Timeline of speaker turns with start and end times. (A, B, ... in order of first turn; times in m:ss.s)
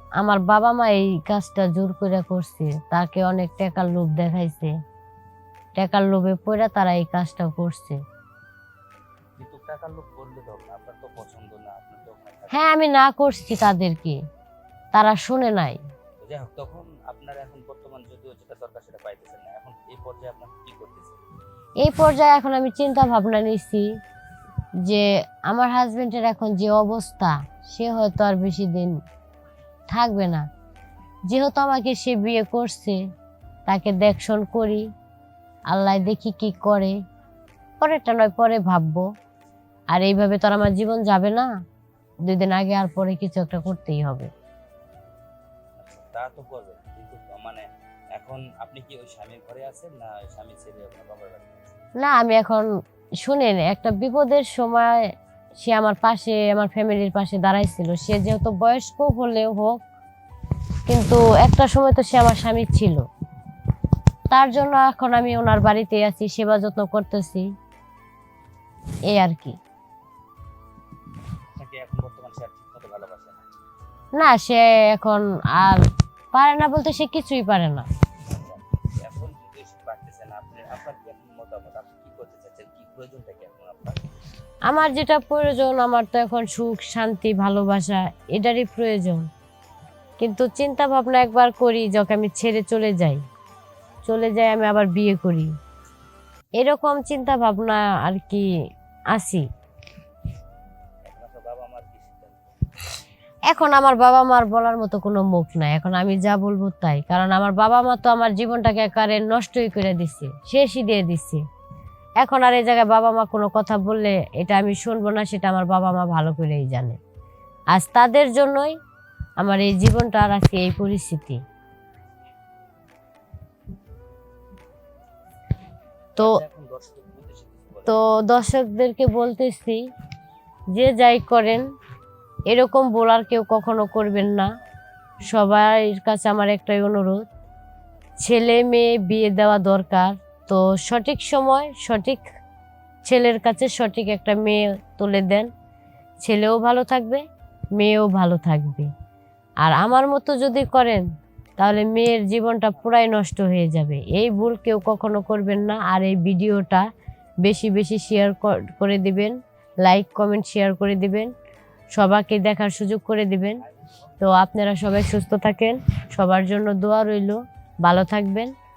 0:00.2-0:04.7 A
0:05.8-0:08.0 A
0:09.4-0:12.7 B
0:12.5-0:14.2 A
0:14.9-0:15.8 A
0:16.2-0:21.2 B
0:21.8-0:23.9 A
0:24.9-0:29.0 A
0:29.9-0:30.5 A
0:31.3-0:33.0 A
0:33.7-0:34.8 A
0:35.7-0:36.9 A
0:37.8-0:39.1 A
0:39.9-0:41.5 A
0:42.3-0:44.3 A
0:45.8-0:47.6 B
0:48.2-0:51.8 B
0:52.0-0:52.7 A
0:53.2-0:55.0 A
0:55.6-0:59.8 A
1:00.9-1:03.0 A
1:04.3-1:07.5 A
1:09.1-1:09.6 A
1:11.5-1:13.4 B
1:14.2-1:15.8 A
1:16.3-1:17.9 A
1:18.3-1:24.1 B
1:24.7-1:29.3 A
1:30.2-1:33.2 A
1:34.0-1:35.5 A
1:36.6-1:38.5 A
1:39.1-1:39.4 A
1:41.0-1:42.5 B
1:43.5-1:51.4 A
1:52.2-1:57.0 A
1:57.7-1:58.8 A
1:59.4-2:01.4 A
2:06.2-2:08.0 B
2:07.9-2:09.8 A
2:10.7-2:11.6 A
2:12.5-2:14.5 A
2:15.3-2:17.3 A
2:18.2-2:22.3 A
2:23.1-2:25.5 A
2:26.2-2:27.2 A
2:27.8-2:28.9 A
2:29.6-2:31.0 A
2:31.6-2:36.8 A
2:37.4-2:41.3 A
2:42.0-2:43.6 A
2:44.2-2:48.5 A